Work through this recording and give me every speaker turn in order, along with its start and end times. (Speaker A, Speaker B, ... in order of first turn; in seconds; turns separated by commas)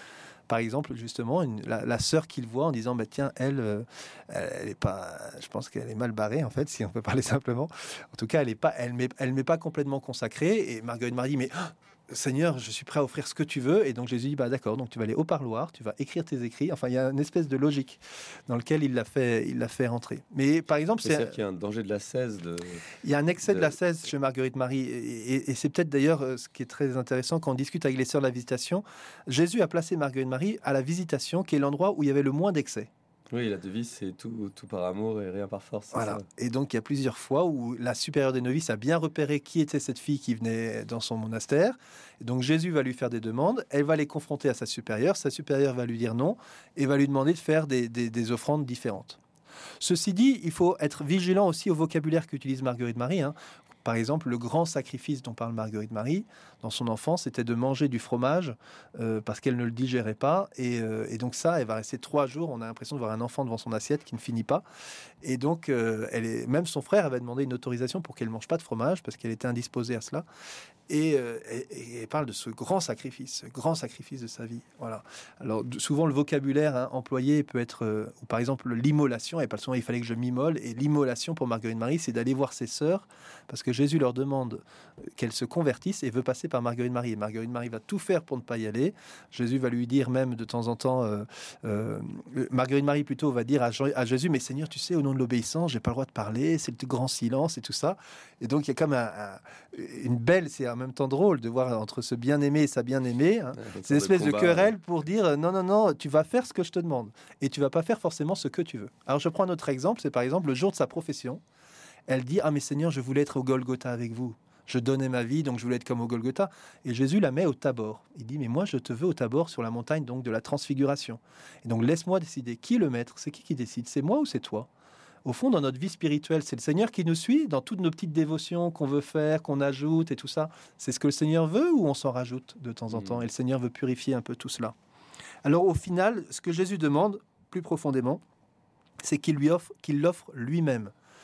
Speaker A: 0.5-21.4, Speaker B: 21.0-23.8, Speaker A: 23.0-32.9, Speaker B: 33.3-36.3, Speaker A: 35.9-49.2, Speaker A: 49.8-64.6, Speaker A: 65.2-70.2, Speaker A: 70.9-84.6, Speaker A: 85.2-111.4, Speaker B: 103.6-104.7, Speaker A: 112.1-124.7, Speaker A: 125.2-134.8, Speaker B: 132.9-133.2, Speaker A: 135.4-138.2, Speaker A: 139.0-140.9